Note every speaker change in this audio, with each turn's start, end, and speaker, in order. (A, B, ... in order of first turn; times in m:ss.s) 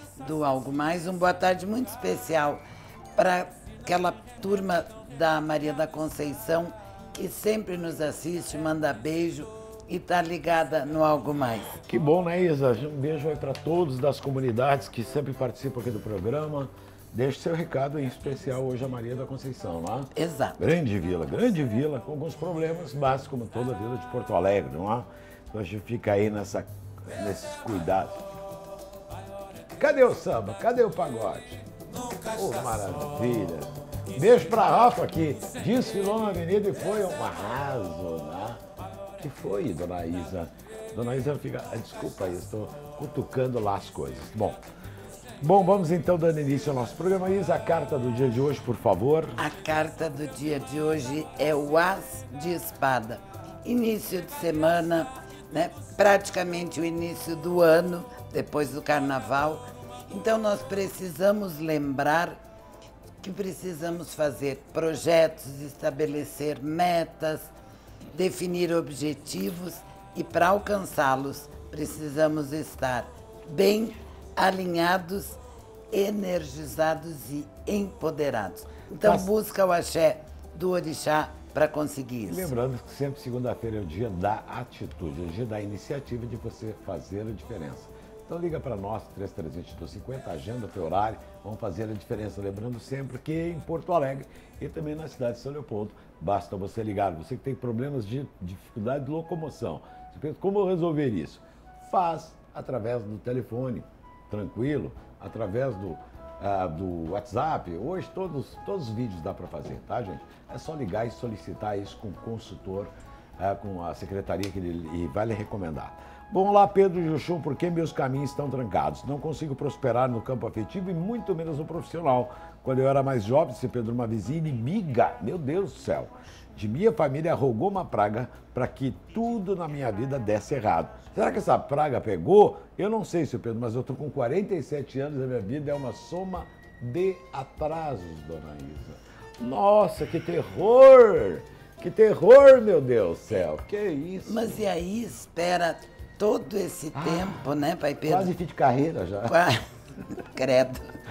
0:00.2-0:02.6 A
0:03.2-0:11.7 A
0:11.8-0:28.2 B
0:20.2-0:20.6 A
0:29.8-0:31.7 B
0:32.2-0:38.6 B
0:39.2-0:44.7 B
0:45.4-0:49.4 B
0:49.4-1:02.4 A
1:03.2-1:07.5 A
1:08.1-1:15.4 A
1:15.9-1:22.5 A
1:19.0-1:19.3 B
1:22.3-2:24.6 B
2:24.2-2:28.3 A
2:27.0-2:27.4 B
2:28.0-2:29.4 B
2:29.3-2:30.9 A